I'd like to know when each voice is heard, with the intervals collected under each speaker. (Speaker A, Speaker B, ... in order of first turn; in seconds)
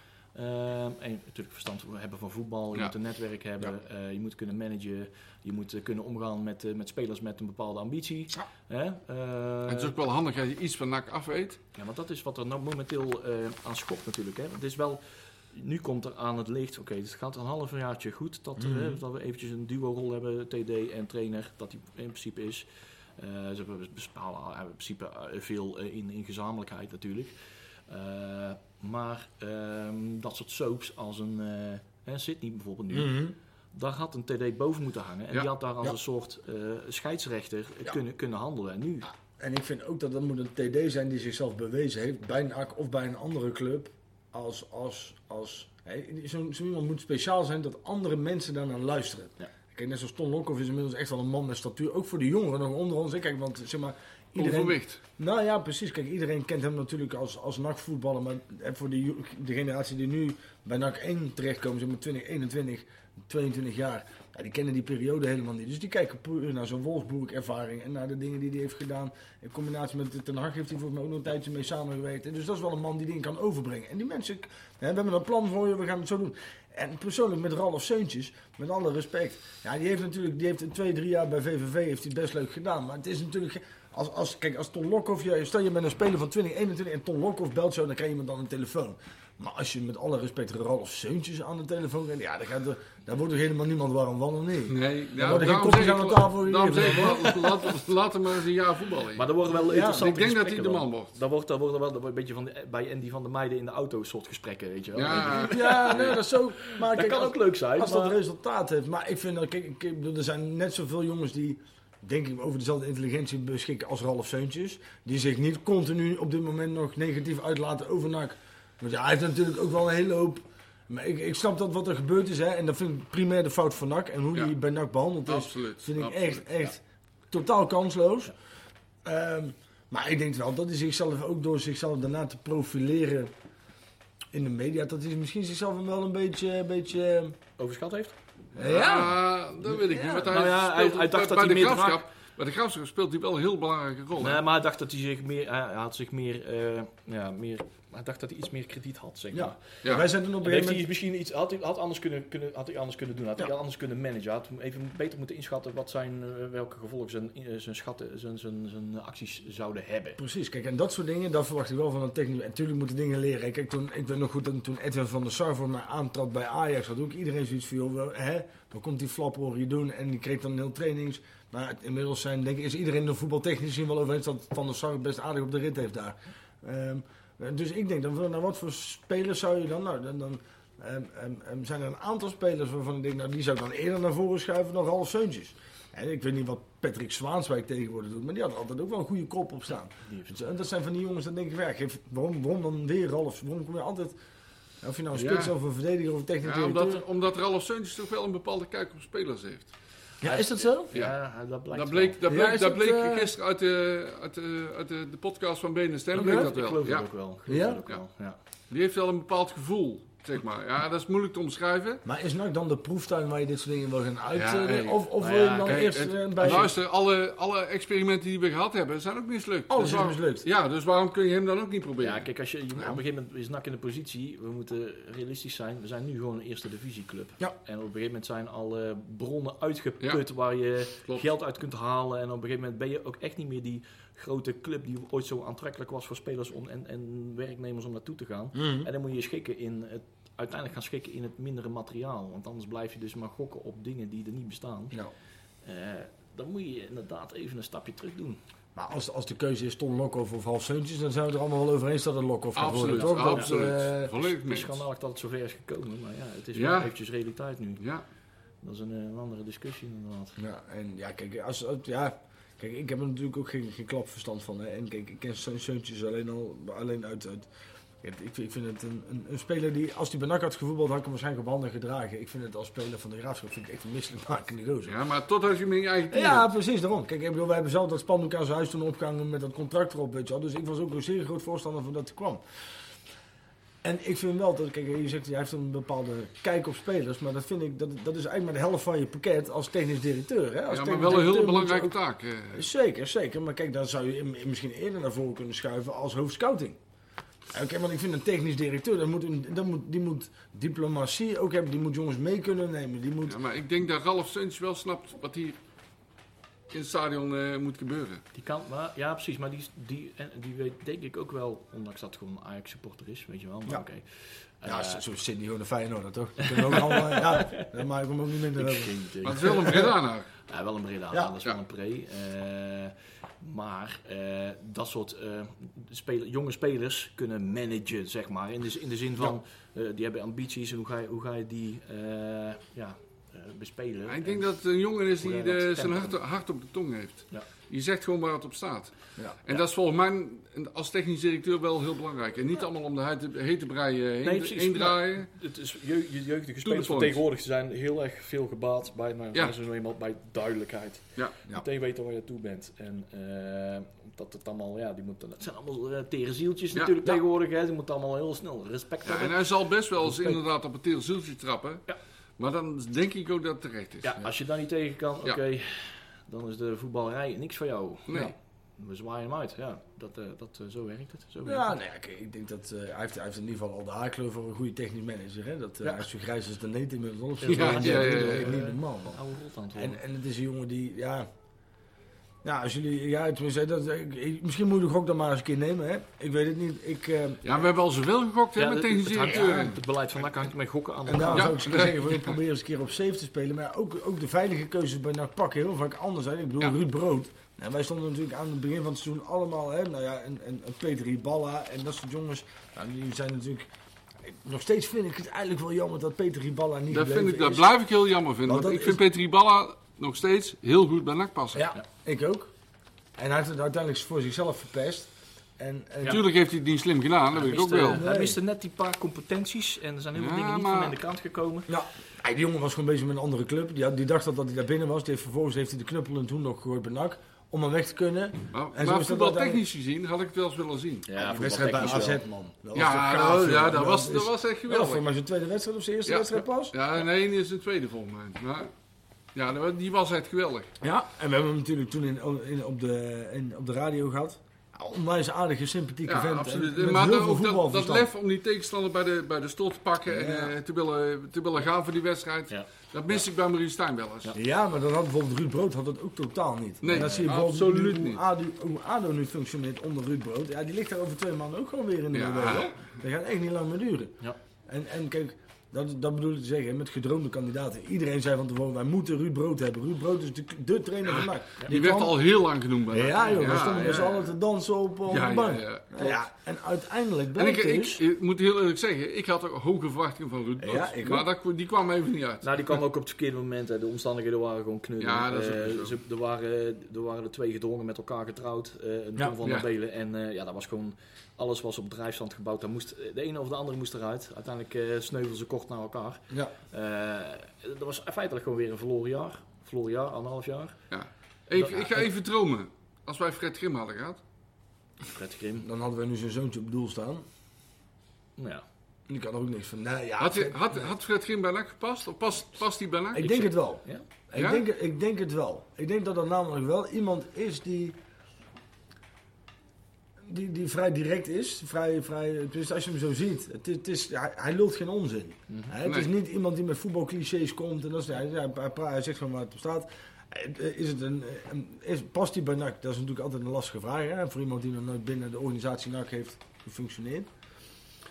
Speaker A: 0.3-9.9, 11.7-15.0, 15.5-27.3, 27.9-39.1, 96.8-97.7, 99.1-108.2, 137.6-138.2, 140.3-142.0, 144.2-149.6, 150.4-160.2, 190.1-190.4, 200.2-202.2, 206.1-208.4, 215.2-215.9, 222.0-245.0, 245.6-248.4, 253.0-253.7, 254.2-257.8, 258.6-260.4, 308.3-315.0, 316.4-317.8, 318.6-319.9, 320.5-334.5, 335.2-336.2, 344.2-360.4, 364.0-371.7, 377.4-380.0, 388.5-391.5, 417.3-421.7, 431.0-432.2, 456.9-457.3, 473.2-474.1, 482.4-500.8, 501.6-502.1, 505.1-505.6, 508.4-508.6
Speaker B: 9.7-11.6, 54.4-55.0, 94.7-101.2, 104.9-106.0, 125.3-126.5, 138.6-144.4, 149.8-150.1, 195.1-195.5, 196.4-199.7, 201.7-207.1, 208.7-212.0, 214.3-215.0, 215.7-222.3, 252.6-254.8, 256.5-256.9, 257.8-258.0, 274.9-276.4, 290.7-292.6, 303.3-305.6, 306.7-308.2, 319.2-320.3, 334.1-345.3, 346.6-347.2, 359.0-361.8, 362.4-364.1, 368.1-368.3, 377.4-378.5, 387.4-389.8, 391.3-392.4, 406.9-411.7, 416.1-418.0, 420.1-421.0, 428.5-431.1, 431.7-432.0, 432.7-435.0, 436.1-438.7, 439.3-440.7, 446.1-454.3, 456.8-458.2, 462.1-462.8, 471.1-474.3, 475.1-476.1, 477.4-482.4, 485.0-486.0, 500.9-504.2, 510.2-513.5, 514.3-514.6, 525.8-526.1
Speaker C: 18.6-19.0, 32.9-33.3, 39.2-97.3, 99.6-100.1, 105.2-128.3, 129.0-133.3, 134.3-137.3, 138.5-140.3, 149.3-150.8, 160.2-194.2, 194.8-197.0, 200.2-200.9, 202.2-203.3, 206.1-206.5, 207.5-207.8, 212.0-216.7, 219.7-220.4, 238.5-238.9, 248.7-254.1, 260.4-267.5, 268.0-274.9, 276.1-282.4, 283.8-291.9, 292.5-296.8, 297.5-303.4, 314.6-319.9, 371.4-379.2, 379.7-381.2, 382.4-387.7, 389.3-389.8, 391.1-403.7, 404.2-407.7, 408.4-409.0, 411.5-412.5, 413.2-416.2, 417.9-418.4, 421.7-429.6, 431.1-436.8, 440.8-448.1, 450.1-450.6, 454.3-464.2, 464.7-472.2, 472.9-478.0, 480.6-481.3, 505.6-507.2, 509.1-510.6, 513.1-518.0, 520.2-537.3